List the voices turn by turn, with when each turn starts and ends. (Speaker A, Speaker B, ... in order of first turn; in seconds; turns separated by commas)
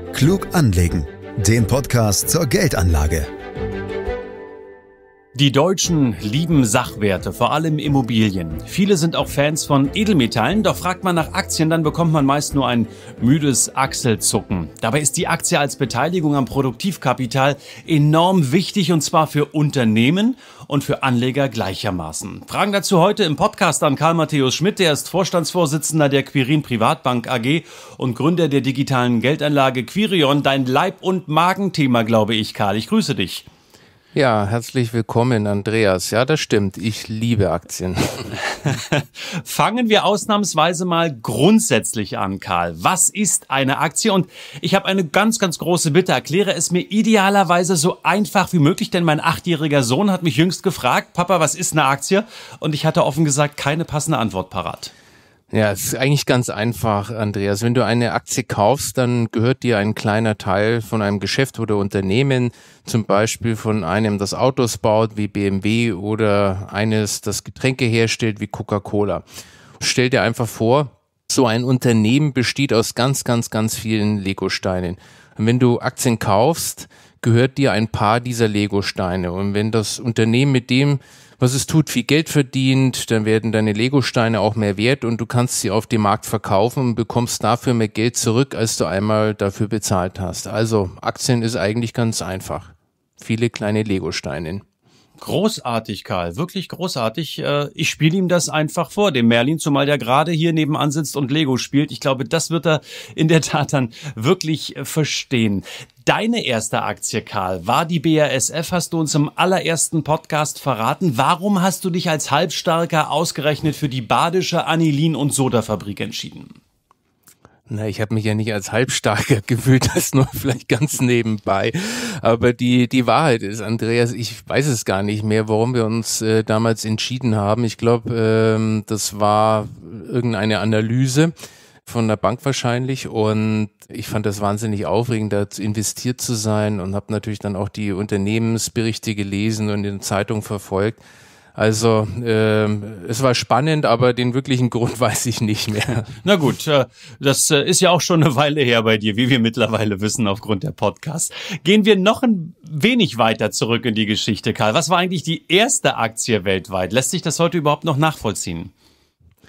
Speaker A: 0.1-3.3, Speaker B: 5.3-33.5, Speaker C: 34.1-38.4, Speaker B: 38.5-54.9, Speaker C: 55.5-69.2, Speaker C: 69.8-94.6, Speaker B: 95.2-116.6, Speaker C: 117.7-131.3, Speaker C: 131.8-141.0, Speaker C: 141.6-146.1, Speaker B: 146.2-158.7